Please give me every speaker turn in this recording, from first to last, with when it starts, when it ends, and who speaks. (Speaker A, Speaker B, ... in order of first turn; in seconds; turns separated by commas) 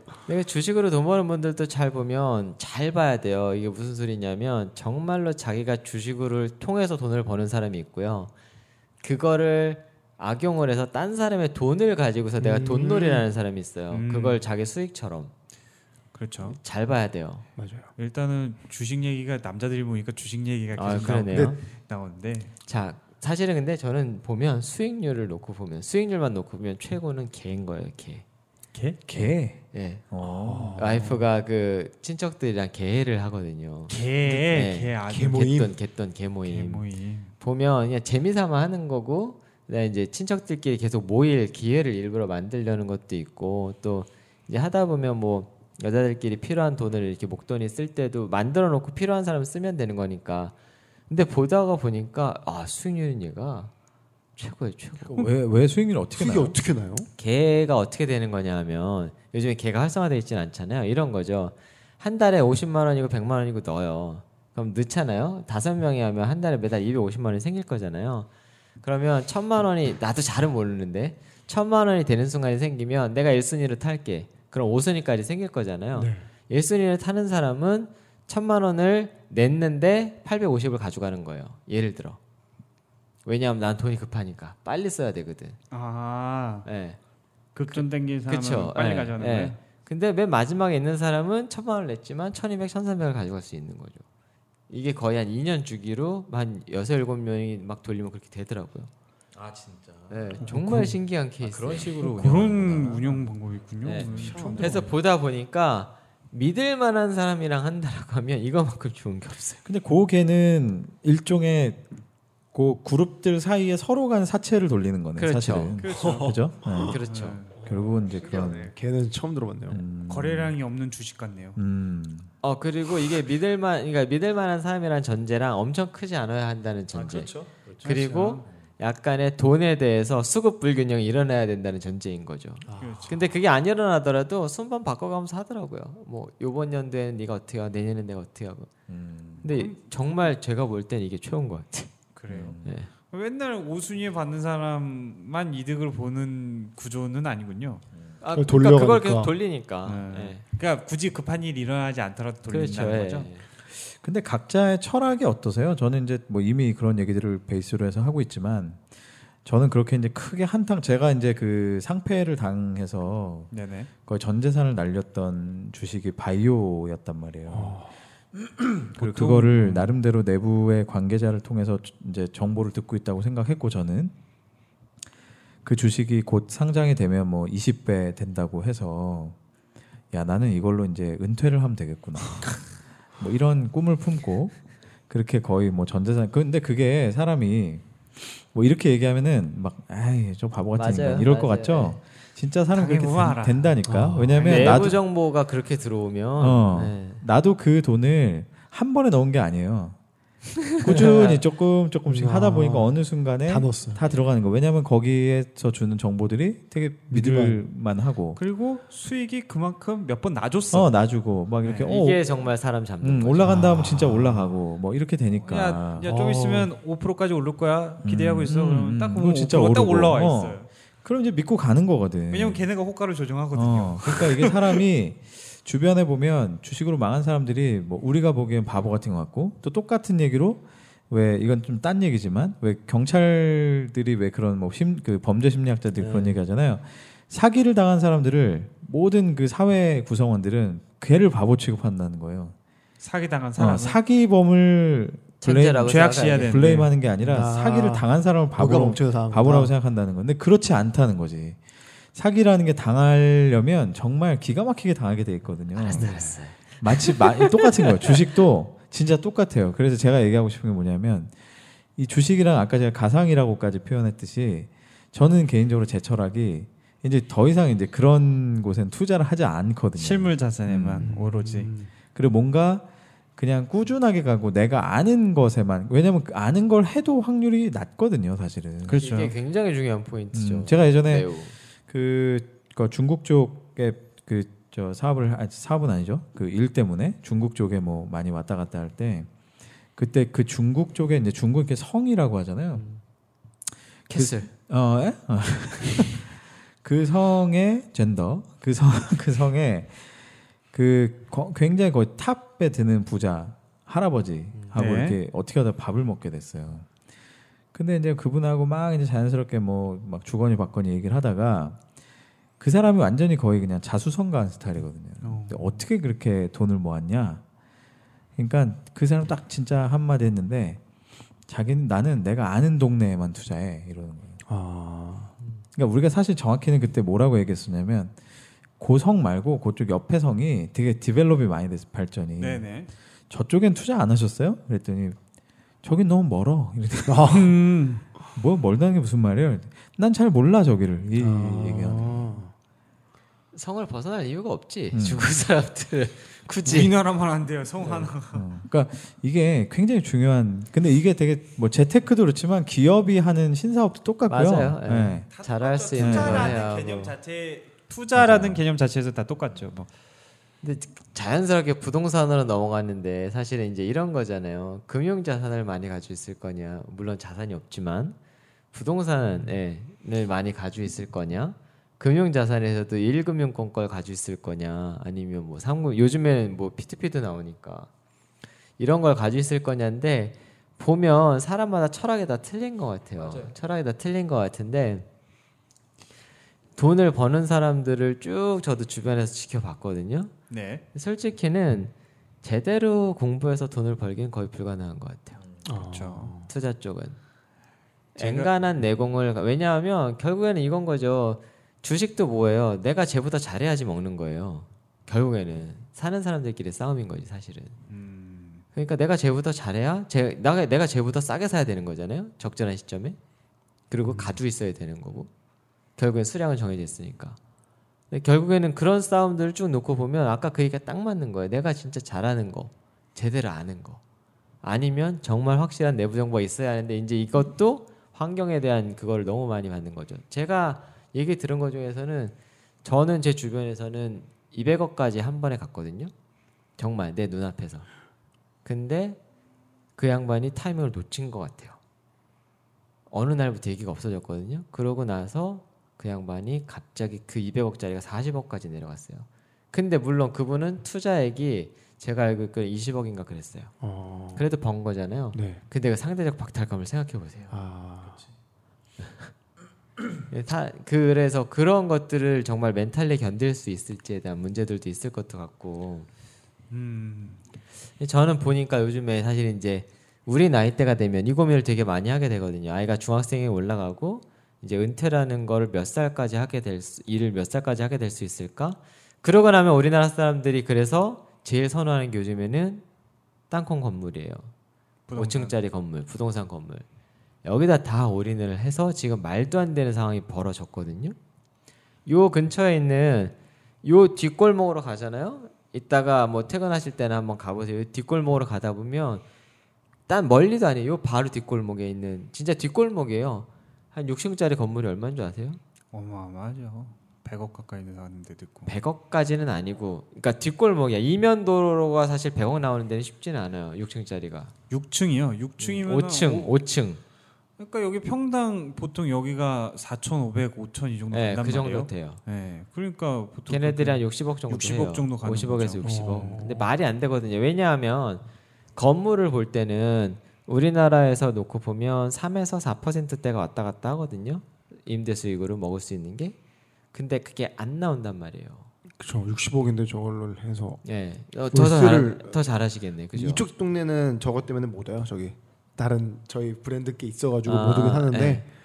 Speaker A: 0.3-8.3, Speaker A: 9.0-15.3, Speaker B: 12.4-13.3, Speaker C: 13.9-14.4, Speaker C: 16.1-16.6, Speaker A: 16.4-17.4, Speaker B: 17.6-17.9, Speaker C: 18.0-22.5, Speaker A: 20.7-21.6, Speaker B: 21.3-21.6, Speaker A: 22.7-28.2, Speaker C: 28.7-29.0, Speaker D: 29.1-30.9, Speaker A: 29.7-30.0, Speaker B: 30.2-31.2, Speaker A: 30.7-36.8, Speaker C: 33.9-35.7, Speaker B: 35.0-35.7, Speaker C: 36.5-37.3, Speaker A: 37.4-50.5, Speaker A: 51.1-53.7, Speaker A: 54.4-55.3, Speaker D: 55.1-56.6, Speaker B: 56.1-57.1, Speaker A: 57.2-68.3, Speaker A: 68.8-82.2, Speaker B: 75.9-76.3, Speaker A: 83.2-85.6, Speaker C: 85.7-86.7, Speaker A: 86.6-87.0, Speaker C: 87.5-89.6, Speaker A: 87.7-94.0, Speaker A: 94.7-98.9, Speaker D: 99.3-103.3, Speaker A: 100.1-101.9, Speaker C: 100.4-100.9, Speaker C: 102.0-104.9, Speaker A: 103.8-109.6, Speaker D: 103.9-104.9, Speaker B: 104.3-104.8, Speaker D: 109.6-111.8, Speaker D: 112.5-118.7, Speaker A: 115.2-115.8, Speaker C: 115.8-116.4, Speaker B: 116.0-116.3, Speaker A: 116.8-117.4, Speaker C: 116.9-117.6, Speaker B: 117.7-119.8, Speaker D: 119.7-120.5, Speaker C: 120.1-121.6, Speaker D: 121.5-122.3, Speaker A: 122.4-138.7, Speaker D: 126.9-127.9, Speaker C: 127.8-128.4, Speaker B: 132.7-133.2, Speaker C: 132.8-133.2, Speaker D: 138.9-139.5, Speaker A: 139.4-141.9, Speaker C: 142.1-147.8, Speaker D: 142.3-142.8, Speaker A: 142.6-142.9, Speaker A: 148.2-150.4, Speaker B: 148.3-149.3, Speaker C: 149.8-153.3, Speaker A: 152.5-153.4, Speaker D: 153.8-158.8, Speaker D: 159.4-163.5, Speaker C: 163.5-163.9, Speaker D: 164.1-167.8, Speaker B: 167.5-167.9, Speaker D: 168.3-174.1, Speaker C: 168.9-169.9, Speaker D: 175.6-179.3, Speaker D: 180.1-182.7, Speaker D: 183.2-184.6, Speaker D: 185.1-195.0, Speaker A: 190.7-192.0, Speaker C: 192.7-193.8, Speaker B: 193.8-194.5, Speaker C: 194.3-194.9, Speaker A: 194.4-197.2, Speaker D: 196.4-200.0, Speaker D: 200.7-208.4, Speaker A: 200.7-201.4, Speaker B: 202.1-202.9, Speaker B: 203.4-204.0, Speaker B: 207.1-207.6, Speaker C: 208.3-210.9, Speaker D: 210.7-212.2, Speaker C: 211.6-211.9, Speaker A: 211.8-213.6, Speaker D: 213.0-216.1, Speaker B: 213.4-214.5, Speaker C: 215.4-220.7, Speaker B: 216.0-216.7, Speaker D: 218.0-222.7, Speaker C: 222.3-224.8, Speaker D: 223.5-242.5, Speaker A: 236.0-236.4, Speaker C: 243.0-244.0, Speaker D: 243.6-251.6, Speaker A: 245.4-246.6, Speaker C: 245.8-246.9, Speaker B: 247.2-249.7, Speaker D: 252.1-261.3, Speaker A: 255.8-257.9, Speaker B: 256.0-256.3, Speaker D: 261.9-271.1, Speaker C: 270.0-271.7, Speaker B: 271.0-271.9, Speaker D: 272.1-272.8, Speaker D: 273.4-279.0, Speaker C: 278.8-279.3, Speaker A: 278.9-281.6, Speaker D: 280.3-281.3, Speaker D: 281.9-289.3, Speaker D: 289.9-292.8, Speaker A: 294.1-294.5, Speaker D: 294.1-300.1, Speaker D: 300.7-306.9, Speaker C: 304.7-305.2, Speaker D: 307.7-311.8, Speaker D: 312.6-317.4, Speaker C: 315.2-315.8, Speaker D: 318.4-320.8, Speaker D: 321.5-324.4, Speaker B: 324.5-325.3, Speaker D: 325.7-328.1, Speaker D: 328.8-332.7, Speaker C: 332.4-332.9, Speaker D: 333.3-335.2, Speaker D: 335.8-337.4, Speaker B: 337.1-337.6, Speaker C: 337.3-338.0, Speaker D: 338.3-342.4, Speaker B: 341.1-342.5, Speaker A: 343.5-346.9, Speaker D: 344.9-345.3, Speaker C: 346.6-348.4, Speaker A: 347.8-348.1, Speaker D: 348.3-355.3, Speaker A: 354.3-357.1, Speaker C: 355.3-359.9, Speaker D: 355.9-356.6, Speaker D: 358.1-358.6, Speaker A: 360.6-368.2, Speaker A: 368.7-377.9, Speaker A: 378.8-385.1, Speaker D: 383.2-383.5, Speaker A: 386.8-390.3, Speaker C: 390.5-390.8, Speaker A: 390.9-395.4, Speaker B: 395.6-396.5, Speaker C: 395.8-396.3, Speaker A: 396.5-397.2, Speaker A: 398.1-407.8, Speaker C: 398.2-398.5, Speaker C: 407.9-408.6, Speaker A: 408.7-413.2, Speaker A: 413.9-415.3, Speaker B: 414.0-414.3, Speaker A: 416.0-417.4, Speaker A: 418.1-424.0, Speaker A: 424.6-436.1, Speaker A: 436.8-437.9, Speaker A: 438.6-439.2, Speaker A: 440.0-441.8, Speaker A: 443.1-453.7, Speaker B: 453.8-454.5, Speaker A: 454.3-457.5, Speaker B: 455.3-455.6, Speaker B: 457.5-458.2, Speaker A: 459.0-459.3, Speaker A: 460.3-466.1, Speaker C: 466.7-467.4, Speaker A: 468.0-482.8, Speaker A: 483.5-484.5, Speaker C: 485.1-485.6, Speaker A: 485.1-486.8, Speaker A: 487.4-491.1, Speaker A: 492.1-499.2, Speaker A: 500.1-505.6, Speaker C: 505.9-508.7, Speaker A: 508.6-514.5, Speaker C: 514.7-516.5, Speaker A: 515.6-517.0, Speaker C: 517.6-526.5, Speaker A: 521.1-522.2, Speaker A: 523.5-528.2, Speaker B: 525.8-526.7, Speaker A: 528.8-536.4, Speaker A: 536.9-538.7, Speaker B: 539.0-540.8, Speaker A: 540.8-543.4, Speaker B: 541.5-542.4, Speaker B: 543.1-548.5, Speaker A: 547.5-548.4